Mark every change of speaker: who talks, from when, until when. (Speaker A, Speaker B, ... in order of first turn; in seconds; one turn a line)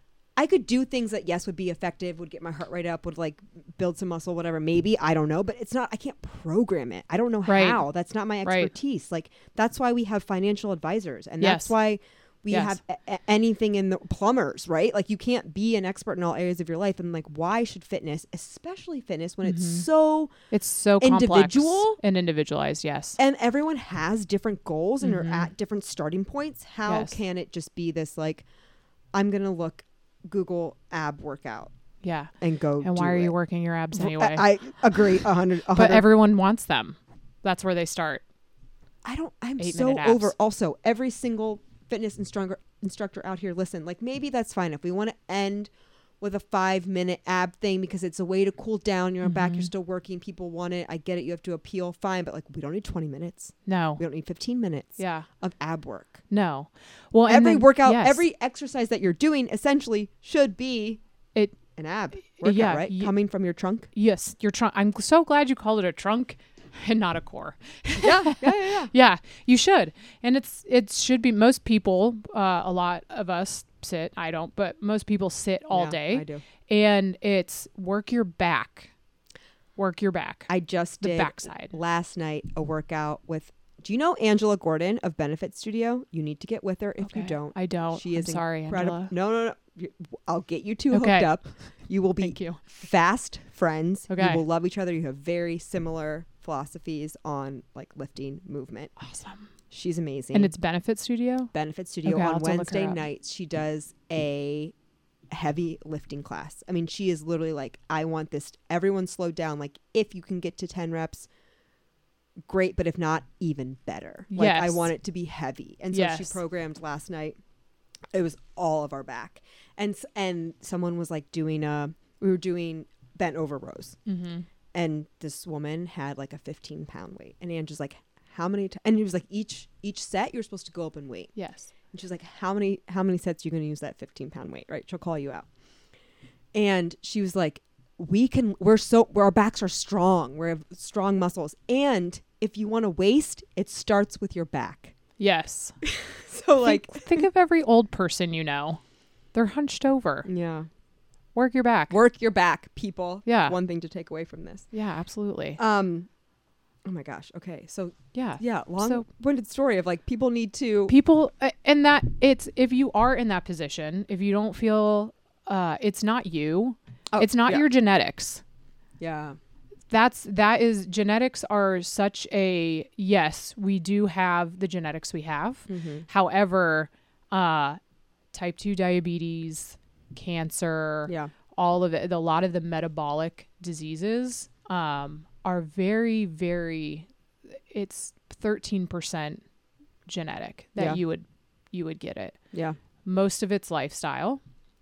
Speaker A: 0.3-20.3
Speaker B: 7.5-7.8
Speaker B: 8.4-8.7
Speaker B: 11.4-11.7
Speaker B: 12.5-12.8
Speaker B: 19.4-19.9
Speaker B: 20.5-23.2
Speaker A: 21.0-22.0
Speaker A: 23.2-28.4
Speaker B: 25.0-25.5
Speaker B: 26.9-27.2
Speaker A: 29.1-31.7
Speaker B: 32.0-34.4
Speaker A: 32.4-33.3
Speaker A: 33.9-36.1
Speaker B: 35.7-38.2
Speaker A: 39.0-56.2
Speaker B: 39.6-40.3
Speaker B: 49.2-49.7
Speaker B: 53.7-54.0
Speaker B: 55.0-55.3
Speaker B: 56.3-58.2
Speaker A: 57.2-61.0
Speaker A: 61.7-63.9
Speaker B: 62.3-63.1
Speaker B: 63.9-78.9
Speaker A: 68.0-68.9
Speaker A: 75.7-76.4
Speaker B: 79.8-80.5
Speaker A: 80.5-98.9
Speaker B: 81.0-81.8
Speaker B: 87.0-89.1
Speaker B: 90.9-91.3
Speaker B: 92.2-92.6
Speaker B: 94.1-94.4
Speaker B: 99.0-99.5
Speaker A: 99.7-100.5
Speaker B: 100.3-101.5
Speaker A: 101.5-104.7
Speaker B: 102.0-103.0
Speaker A: 105.3-111.3
Speaker A: 112.5-117.4
Speaker B: 114.3-114.9
Speaker B: 115.9-116.4
Speaker A: 118.1-124.0
Speaker B: 124.0-124.5
Speaker A: 124.7-131.3
Speaker B: 131.3-131.7
Speaker A: 131.9-135.5
Speaker A: 136.5-144.9
Speaker B: 145.2-145.8
Speaker A: 145.8-147.2
Speaker B: 146.6-148.8
Speaker B: 149.3-150.3
Speaker A: 150.2-150.7
Speaker B: 151.3-152.0
Speaker A: 151.9-154.7
Speaker B: 153.2-153.6
Speaker B: 154.7-155.6
Speaker A: 155.6-156.1
Speaker A: 156.8-160.9
Speaker B: 158.1-159.0
Speaker B: 160.9-168.4
Speaker A: 167.1-167.6
Speaker A: 169.0-169.4
Speaker B: 169.9-177.8
Speaker A: 175.7-176.1
Speaker B: 178.3-187.1
Speaker B: 187.7-189.4
Speaker B: 190.1-192.4
Speaker A: 192.5-192.8
Speaker B: 193.0-194.4